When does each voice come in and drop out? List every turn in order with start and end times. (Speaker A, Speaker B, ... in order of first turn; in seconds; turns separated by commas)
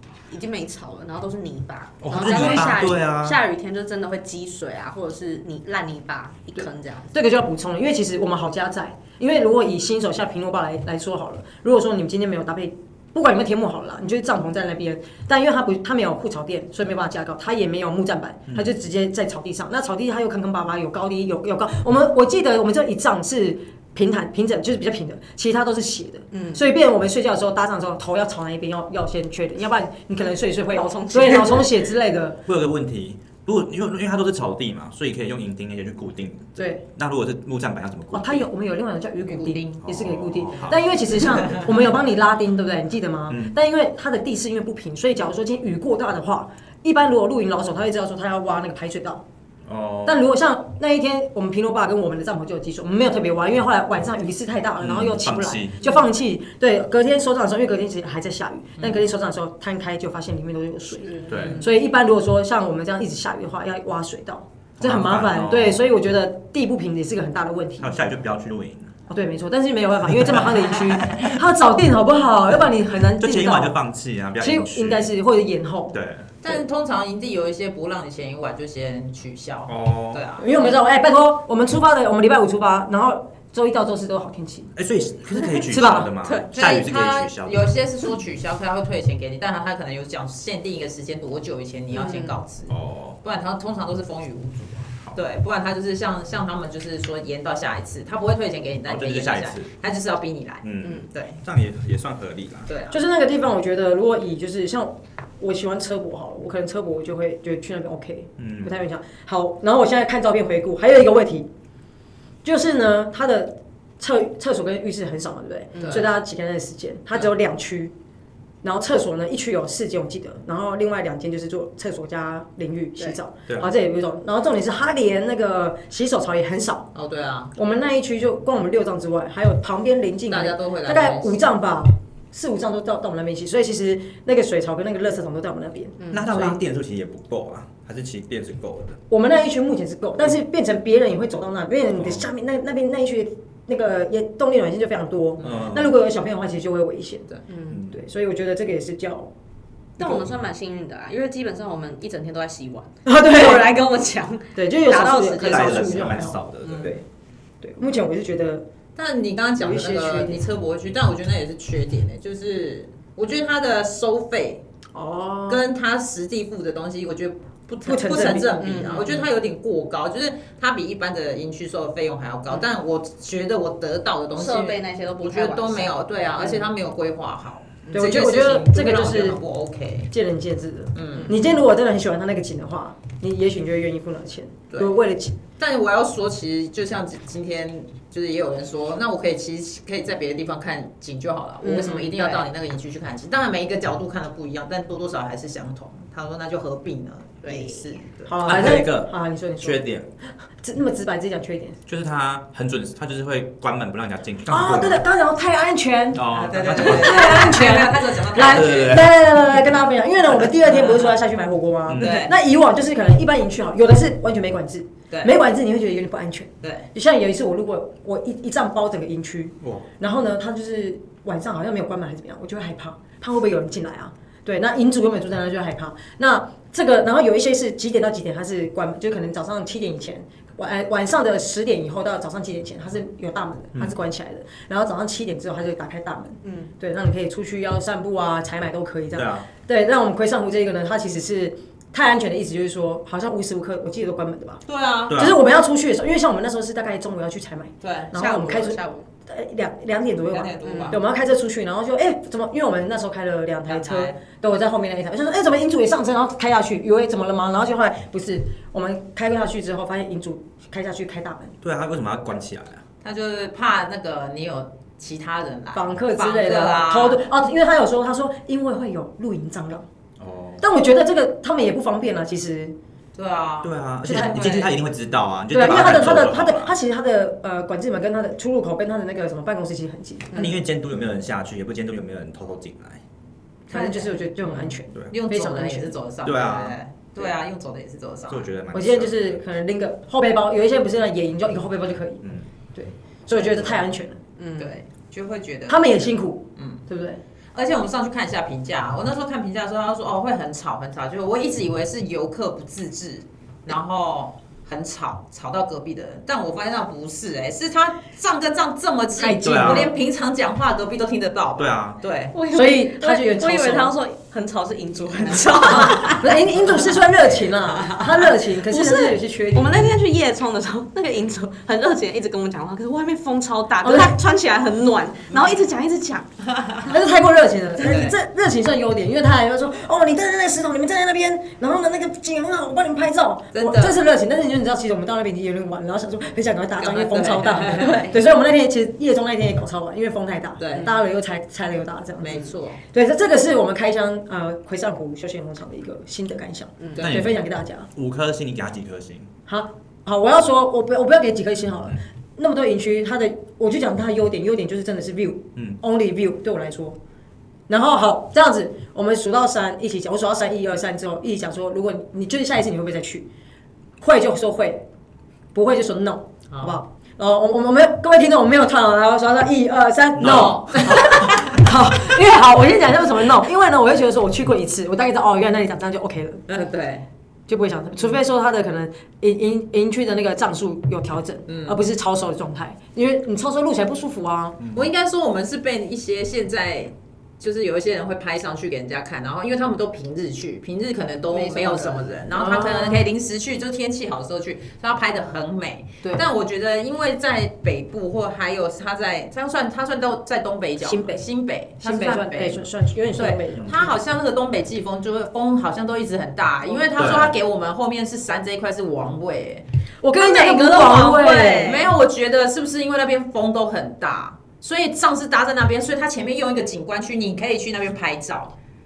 Speaker A: 0.3-7.1, Speaker B: 2.0-3.4, Speaker C: 2.1-2.9, Speaker C: 6.5-32.4, Speaker B: 18.5-18.7, Speaker A: 26.3-26.6, Speaker A: 30.7-31.7, Speaker B: 32.5-38.5, Speaker C: 36.5-36.8, Speaker C: 38.1-49.2, Speaker D: 39.3-39.8, Speaker B: 39.8-40.9, Speaker B: 43.3-43.5, Speaker B: 49.6-50.2, Speaker C: 50.0-68.0, Speaker B: 54.8-55.8, Speaker D: 58.8-59.0, Speaker A: 61.0-61.6, Speaker B: 61.3-61.6, Speaker D: 61.3-61.6, Speaker B: 64.8-65.9, Speaker B: 67.8-68.9, Speaker C: 69.1-73.8, Speaker B: 70.0-71.3, Speaker B: 73.1-75.1, Speaker C: 74.4-76.0, Speaker B: 75.9-76.4, Speaker D: 76.4-80.7, Speaker B: 79.7-80.2, Speaker C: 80.4-84.7, Speaker B: 84.7-87.7, Speaker C: 85.5-86.1, Speaker A: 86.2-86.5, Speaker D: 86.5-101.4, Speaker A: 91.9-92.3, Speaker B: 92.7-93.2, Speaker B: 98.8-99.7, Speaker B: 100.6-102.7, Speaker D: 102.7-103.0, Speaker C: 102.9-111.5, Speaker B: 108.4-108.7, Speaker C: 112.4-117.9, Speaker A: 115.7-116.0, Speaker D: 115.7-116.0, Speaker C: 118.6-126.9, Speaker D: 126.9-127.5, Speaker C: 127.5-136.5, Speaker D: 130.3-131.4, Speaker A: 136.0-136.4, Speaker B: 136.1-139.0, Speaker C: 139.1-147.3, Speaker B: 142.0-142.2, Speaker B: 145.4-145.9, Speaker A: 147.5-147.8, Speaker B: 147.7-148.0, Speaker C: 147.9-149.3, Speaker C: 150.0-150.2, Speaker A: 150.0-156.1, Speaker C: 153.0-153.7, Speaker C: 154.5-157.0, Speaker B: 155.4-157.0, Speaker D: 156.6-156.9, Speaker C: 157.6-158.6, Speaker D: 158.9-164.6, Speaker C: 159.6-160.4, Speaker C: 164.9-165.6, Speaker D: 165.5-180.1, Speaker C: 167.8-168.5, Speaker A: 168.6-169.3, Speaker A: 174.3-176.6, Speaker C: 177.9-179.4, Speaker C: 180.1-185.3, Speaker D: 180.9-181.3, Speaker D: 185.6-198.3, Speaker C: 191.6-192.4, Speaker A: 191.7-192.4, Speaker A: 197.4-198.0, Speaker C: 198.2-199.8, Speaker B: 198.4-200.1, Speaker C: 200.6-201.8, Speaker B: 201.9-205.0, Speaker C: 204.5-244.6, Speaker B: 206.1-207.5, Speaker D: 206.3-209.0, Speaker B: 208.4-209.6, Speaker D: 210.5-211.2, Speaker B: 211.9-212.3, Speaker D: 212.0-212.3, Speaker D: 215.1-215.3, Speaker D: 216.6-216.9, Speaker B: 219.6-219.8, Speaker A: 236.4-236.7, Speaker B: 239.1-239.4, Speaker D: 244.7-245.2, Speaker B: 245.1-245.4, Speaker C: 245.1-261.5, Speaker D: 247.8-248.1, Speaker A: 248.1-249.1, Speaker D: 250.3-251.0, Speaker A: 250.6-251.0, Speaker D: 253.7-254.2, Speaker B: 261.6-262.8, Speaker D: 263.0-267.2, Speaker C: 265.7-269.8, Speaker B: 270.2-270.6, Speaker C: 270.6-272.7, Speaker D: 273.1-274.8, Speaker B: 273.6-276.7, Speaker C: 274.0-274.6, Speaker C: 275.5-280.5, Speaker B: 280.3-283.0, Speaker C: 283.7-285.9, Speaker D: 283.7-284.1, Speaker D: 285.1-288.5, Speaker B: 286.2-286.8, Speaker B: 288.3-289.4, Speaker C: 288.7-292.2, Speaker C: 292.7-294.2, Speaker D: 293.4-293.8, Speaker A: 294.4-294.8, Speaker D: 294.6-296.8, Speaker C: 295.7-297.2, Speaker D: 297.5-312.4, Speaker C: 309.1-309.9, Speaker B: 309.4-309.9, Speaker B: 311.6-312.0, Speaker A: 312.3-316.7, Speaker C: 312.5-313.9, Speaker D: 315.2-316.2, Speaker C: 315.8-319.9, Speaker D: 317.7-318.0, Speaker A: 318.6-326.3, Speaker C: 323.8-324.1, Speaker C: 326.9-347.9, Speaker D: 327.8-328.1, Speaker D: 333.5-334.0, Speaker D: 336.8-338.1, Speaker A: 337.7-338.2, Speaker D: 340.6-340.9, Speaker D: 342.2-342.8, Speaker A: 346.8-347.1, Speaker B: 347.0-347.4, Speaker B: 347.9-349.3, Speaker C: 349.5-357.0, Speaker C: 357.7-363.3, Speaker C: 364.0-364.8, Speaker C: 365.5-376.6, Speaker D: 366.5-366.8, Speaker B: 370.1-371.0, Speaker D: 370.2-371.6, Speaker D: 376.5-377.1, Speaker C: 377.5-384.6, Speaker D: 381.5-381.8, Speaker B: 384.6-384.9, Speaker D: 384.7-409.6, Speaker A: 391.3-392.8, Speaker C: 392.3-393.0, Speaker C: 400.8-401.2, Speaker C: 401.8-403.9, Speaker B: 403.6-403.9, Speaker B: 406.9-407.4, Speaker C: 410.0-411.8, Speaker D: 410.2-418.5, Speaker A: 410.3-411.9